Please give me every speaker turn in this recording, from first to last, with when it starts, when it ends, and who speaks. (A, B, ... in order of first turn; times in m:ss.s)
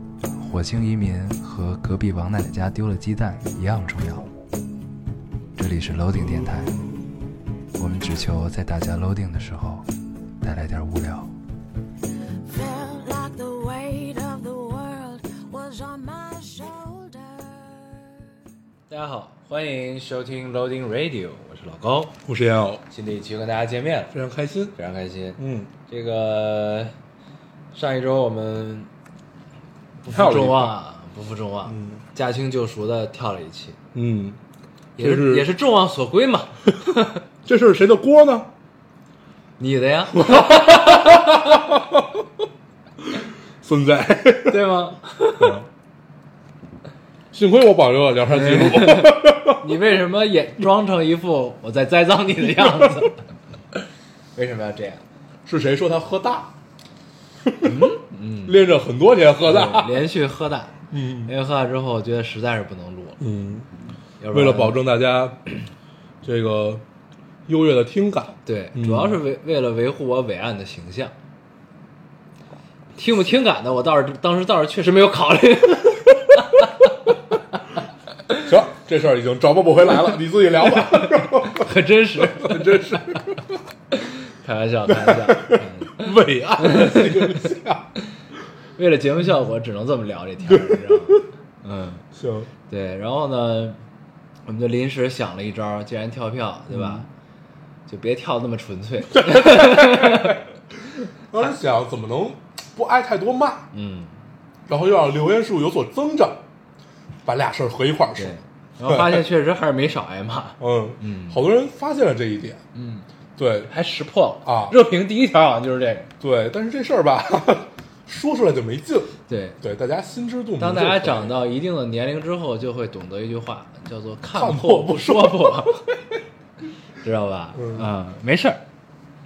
0:00.4-0:04.3 A
0:05.6-0:06.8 A
0:07.8-0:09.9 A
0:10.4-0:11.3 A
0:12.5-0:17.8 B
0:18.9-0:22.2 A
0:22.2-0:22.8 C
0:22.9-0:24.1 A
0:24.1-0:24.8 C
0:24.8-0:26.9 A
0:25.4-0:25.7 C
0:27.7-0:28.9 A
0:30.0-0:33.8 A
0:30.1-0:30.7 C
0:31.7-0:32.0 C
0:33.9-0:34.4 C
0:35.0-0:37.2 A
0:35.0-0:35.5 C
0:37.4-0:38.5 C
0:39.6-0:41.3 A
0:40.2-0:42.2 C
0:43.1-0:44.6 C
0:44.5-0:45.6 A
0:45.4-0:45.7 C
0:47.3-0:49.6 C
0:48.3-0:53.2 A
0:52.6-0:52.9 C
0:54.3-0:55.0 A
0:55.4-0:56.5 C
0:57.4-0:57.9 C
0:57.6-0:58.6 A
0:58.4-1:00.0 C
0:59.4-1:03.2 A
1:00.9-1:01.3 C
1:03.2-1:03.7 C
1:04.2-1:04.8 A
1:04.3-1:05.4 C
1:06.2-1:06.8 C
1:07.5-1:09.2 C
1:08.4-1:11.1 A
1:13.0-1:16.8 A
1:18.4-1:23.3 C
1:20.9-1:23.2 A
1:23.9-1:27.5 A
1:24.9-1:27.9 C
1:28.8-1:32.0 A
1:30.4-1:31.2 C
1:32.1-1:32.5 C
1:32.7-1:33.8 A
1:34.4-1:37.1 A
1:36.7-1:37.0 C
1:37.9-1:40.4 A
1:39.2-1:40.4 C
1:41.3-1:43.7 C
1:43.7-1:44.2 A
1:44.7-1:46.4 C
1:47.2-1:48.4 C
1:48.2-1:51.4 A
1:48.9-1:49.2 C
1:50.6-1:52.6 C
1:52.7-1:53.0 A
1:53.4-1:53.7 C
1:53.7-1:56.1 A
1:54.4-1:54.8 C
1:56.2-2:01.4 C
1:59.3-1:59.6 A
2:00.6-2:05.8 A
2:04.3-2:05.7 C
2:07.0-2:08.6 A
2:07.6-2:07.9 C